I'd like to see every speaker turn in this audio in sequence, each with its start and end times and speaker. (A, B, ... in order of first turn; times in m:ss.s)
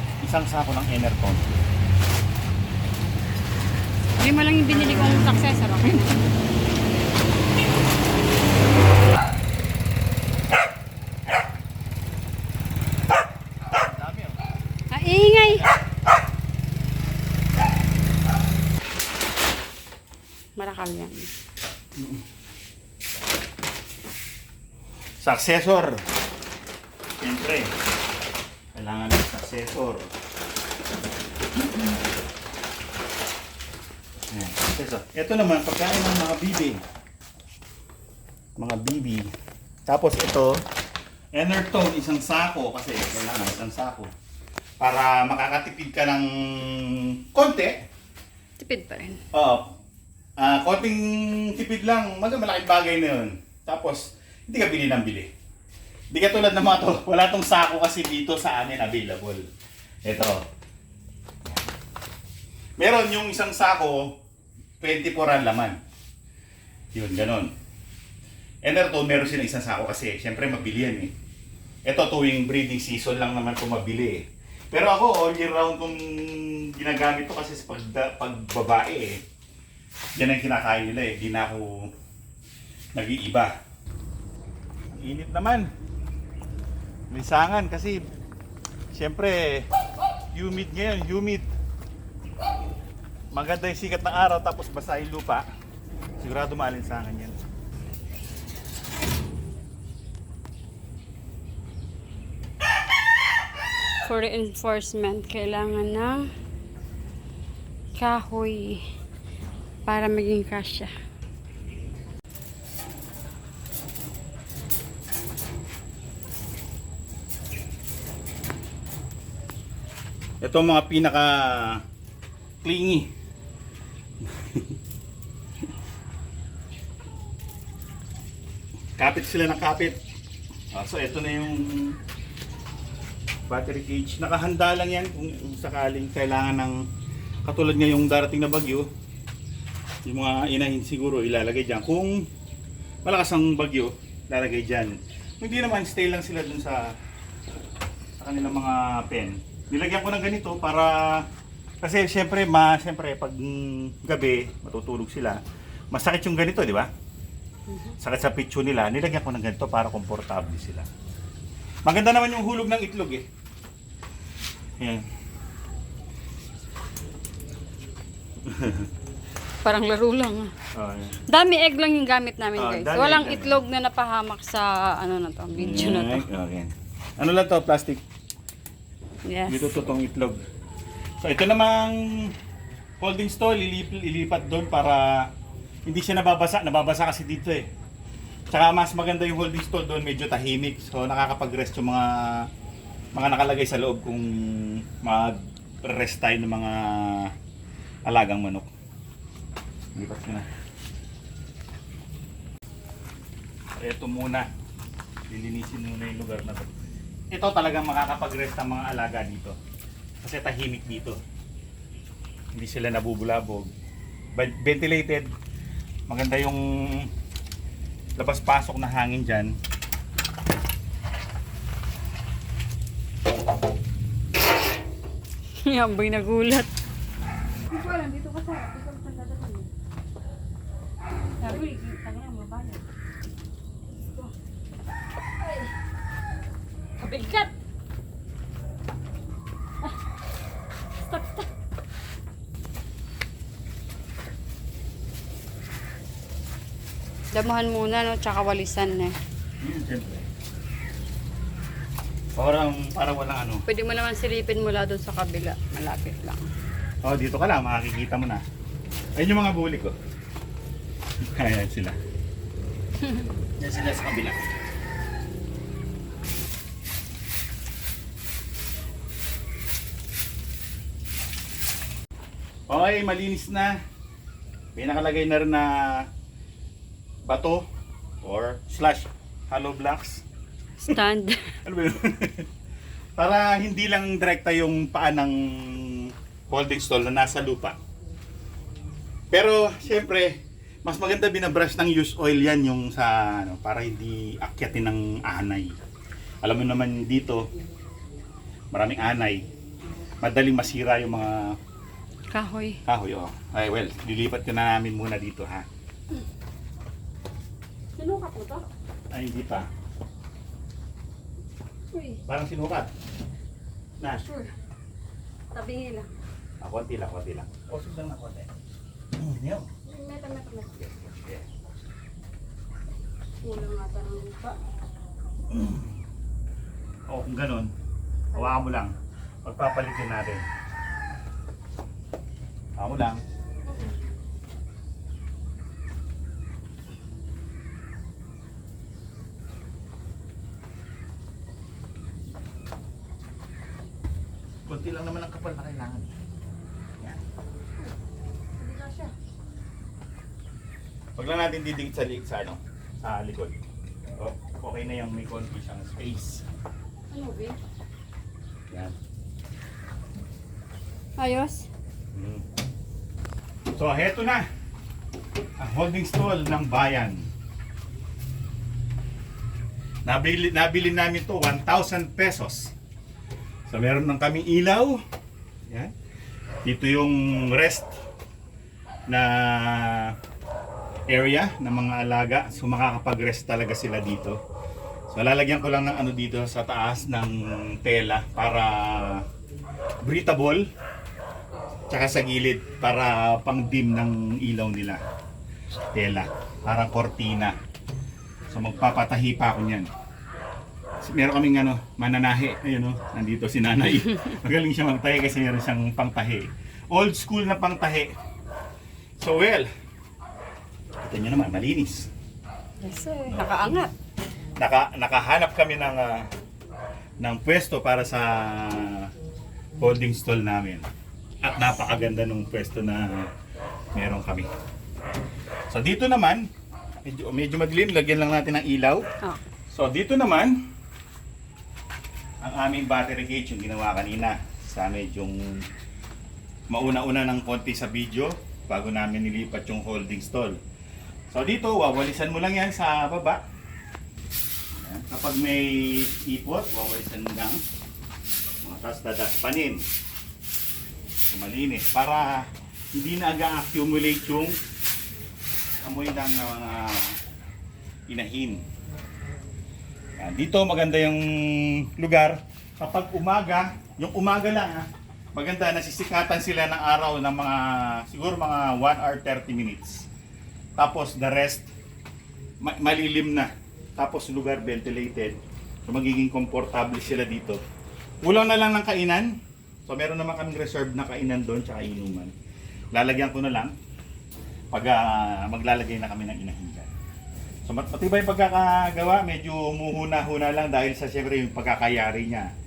0:00.2-0:01.6 A
0:04.2-0:06.2 B
0:14.9-0:15.7 B
0:20.6-0:21.3 B
0:22.0-0:22.2 A
0:25.2-0:26.0 A
0:27.2-0:27.7 A
0:28.7-0:30.1 A
0:34.3-0:36.8 A
0:38.6-0:39.3 A
0:39.9-0:40.6 A
0:41.3-0:44.1 A
0:44.8-0:47.7 A
0:48.6-0:49.2 B
0:49.3-0:49.6 A
0:50.4-0:55.3 A
0:56.1-0:59.4 A
1:00.0-1:00.4 A
1:02.8-1:04.2 A
1:04.8-1:05.8 A
1:06.9-1:07.5 A
1:08.6-1:11.1 A
1:11.8-1:19.2 A
1:20.2-1:21.9 A
1:22.9-1:23.5 A
1:24.9-1:25.7 A
1:27.1-1:28.0 A
1:28.9-1:29.7 A
1:30.3-1:31.5 A
1:33.3-1:35.4 A
1:36.2-1:37.4 A
1:44.0-1:46.3 B
1:48.0-1:48.8 B
1:49.8-1:50.9 B
2:00.4-2:01.8 A
2:02.6-2:03.1 A
2:04.4-2:04.7 A
2:09.0-2:10.0 A
2:10.7-2:12.0 A
2:13.5-2:16.8 A
2:17.4-2:18.8 A
2:20.0-2:22.2 A
2:23.0-2:26.9 A
2:28.2-2:31.2 A
2:31.8-2:35.4 A
2:35.9-2:36.9 A
2:37.7-2:38.0 B
2:38.0-2:40.9 A
2:41.8-2:43.2 A
2:44.8-2:45.0 A
2:48.4-2:48.9 A
2:49.6-2:50.5 B
2:50.7-2:51.2 A
2:51.3-2:56.2 B
2:52.6-2:53.6 A
2:55.6-2:58.0 A
2:59.2-2:59.8 B
2:59.5-3:00.4 A
3:01.2-3:02.3 A
3:03.0-3:05.3 A
3:05.9-3:07.6 A
3:08.5-3:12.5 A
3:13.1-3:17.3 A
3:18.0-3:18.7 A
3:19.9-3:20.5 A
3:23.8-3:24.4 A
3:25.3-3:26.7 A
3:27.3-3:29.6 A
3:30.2-3:31.2 A
3:32.5-3:33.7 A
3:34.3-3:35.3 A
3:36.1-3:37.1 A
3:38.2-3:39.5 A
3:45.6-3:46.7 B
3:47.7-3:49.7 B
3:51.4-3:52.8 B
3:54.0-3:54.3 B
3:55.4-3:55.7 B
3:57.0-3:57.5 B
4:01.0-4:01.5 B
4:07.3-4:09.1 B
4:09.6-4:10.2 A
4:12.4-4:13.6 A
4:13.6-4:16.5 B
4:17.0-4:18.4 A
4:19.2-4:19.9 A
4:21.2-4:22.0 A
4:23.6-4:24.4 A
4:32.7-4:33.8 A
4:34.7-4:36.1 A
4:37.2-4:37.6 A
4:38.2-4:40.2 A
4:40.8-4:41.5 B
4:41.6-4:42.5 A
4:43.2-4:47.8 A
4:49.3-4:55.8 A
4:56.4-4:57.5 A
4:58.7-4:59.4 A
5:00.2-5:01.6 A
5:02.3-5:02.8 B
5:02.8-5:05.6 A
5:08.0-5:08.6 B
5:09.1-5:09.7 A
5:11.9-5:12.2 B
5:12.3-5:12.9 A
5:14.2-5:14.5 B
5:15.5-5:16.1 B
5:16.6-5:18.5 A
5:19.2-5:19.7 A
5:19.8-5:20.8 B
5:20.8-5:21.4 A
5:23.4-5:24.6 B
5:25.5-5:25.9 A
5:27.1-5:27.7 A
5:28.3-5:28.9 A
5:29.4-5:30.4 A
5:32.8-5:33.2 A
5:33.7-5:34.0 B
5:44.6-5:46.1 A
5:48.6-5:49.1 B
5:51.2-5:53.6 A
5:54.2-5:56.4 A
5:57.1-5:57.6 B
6:01.2-6:01.7 B
6:02.1-6:02.4 A
6:03.7-6:04.4 A
6:05.6-6:07.2 A
6:10.0-6:12.7 A
6:13.7-6:15.0 A
6:15.7-6:15.9 A
6:16.6-6:18.0 A
6:19.1-6:20.2 A
6:21.1-6:24.4 A
6:25.1-6:29.2 A
6:30.0-6:30.6 A
6:31.9-6:35.0 A
6:35.9-6:37.6 A
6:38.5-6:39.9 A
6:41.0-6:48.1 A
6:49.2-6:49.7 A
6:51.0-6:52.1 A
6:52.8-6:53.9 B
6:53.3-6:53.6 A
6:54.6-6:56.3 A
6:57.2-6:59.1 A
6:59.8-7:00.8 A
7:01.4-7:03.3 A
7:03.9-7:04.5 A
7:05.7-7:06.5 A
7:07.0-7:09.0 A
7:09.7-7:10.5 A
7:12.4-7:15.6 A
7:16.7-7:20.6 A
7:21.3-7:23.4 A
7:24.8-7:27.6 A
7:28.6-7:29.8 A
7:31.3-7:34.6 A
7:35.8-7:37.2 A
7:38.1-7:38.6 A
7:40.2-7:50.1 A
7:50.8-7:51.7 A
7:52.6-7:57.6 A
7:58.2-7:59.3 A
7:59.8-8:02.3 A
8:02.9-8:03.7 A
8:04.7-8:06.9 A
8:07.6-8:12.5 A